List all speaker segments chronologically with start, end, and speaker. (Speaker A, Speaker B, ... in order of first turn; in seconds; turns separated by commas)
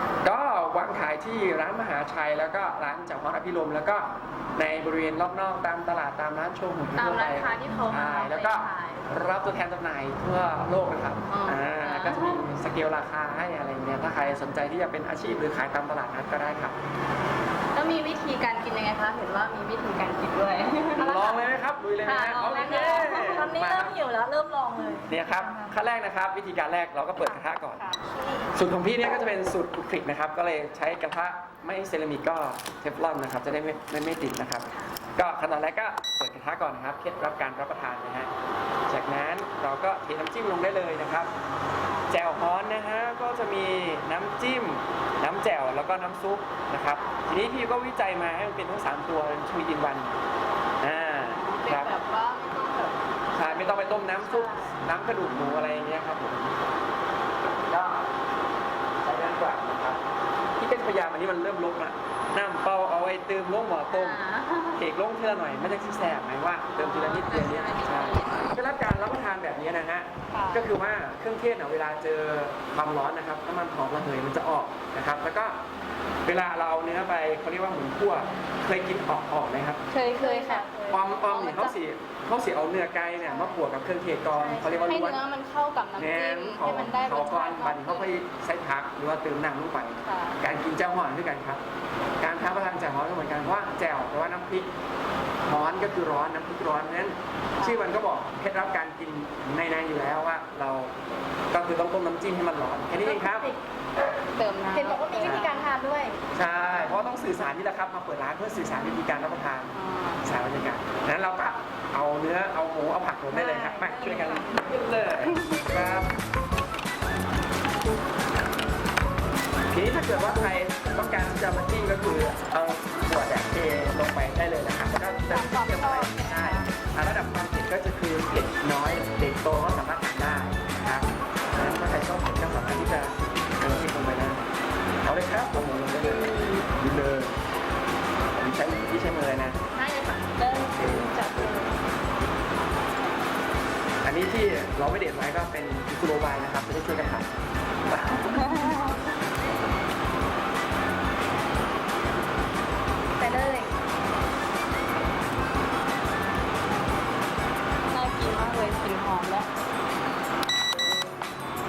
Speaker A: 0.2-16.8, Speaker B: 7.0-9.1, Speaker B: 11.3-12.5, Speaker B: 17.7-21.4, Speaker A: 21.0-24.0, Speaker B: 22.0-23.6, Speaker C: 22.5-25.8, Speaker A: 25.1-27.8, Speaker A: 28.5-38.3, Speaker A: 38.9-41.3, Speaker A: 42.1-50.1, Speaker B: 46.9-47.3, Speaker A: 50.8-52.0, Speaker B: 51.3-54.8, Speaker A: 53.4-56.6, Speaker A: 57.7-58.1, Speaker A: 59.0-60.0, Speaker A: 60.6-64.2, Speaker B: 63.9-64.8, Speaker A: 64.8-75.6, Speaker B: 66.7-68.6, Speaker B: 70.3-70.7, Speaker A: 76.2-79.8, Speaker B: 79.9-81.8, Speaker C: 80.2-81.1, Speaker A: 80.9-85.2, Speaker C: 83.2-83.6, Speaker C: 84.3-85.1, Speaker B: 84.9-88.2, Speaker A: 86.0-91.6, Speaker B: 90.0-90.4, Speaker A: 92.2-94.7, Speaker A: 95.5-101.0, Speaker B: 97.5-97.9, Speaker A: 101.5-103.5, Speaker C: 103.0-103.6, Speaker B: 104.3-105.7, Speaker C: 104.7-106.2, Speaker A: 105.2-105.6, Speaker A: 106.3-116.1, Speaker B: 109.7-110.3, Speaker C: 113.3-114.6, Speaker B: 115.2-115.7, Speaker A: 119.7-134.5, Speaker C: 125.3-126.7, Speaker A: 135.0-137.3, Speaker B: 136.0-136.7, Speaker A: 138.4-139.6, Speaker C: 139.8-141.7, Speaker B: 140.4-140.7, Speaker A: 140.8-141.6, Speaker A: 144.0-148.7, Speaker B: 148.2-149.0, Speaker B: 153.2-153.7, Speaker B: 157.9-159.5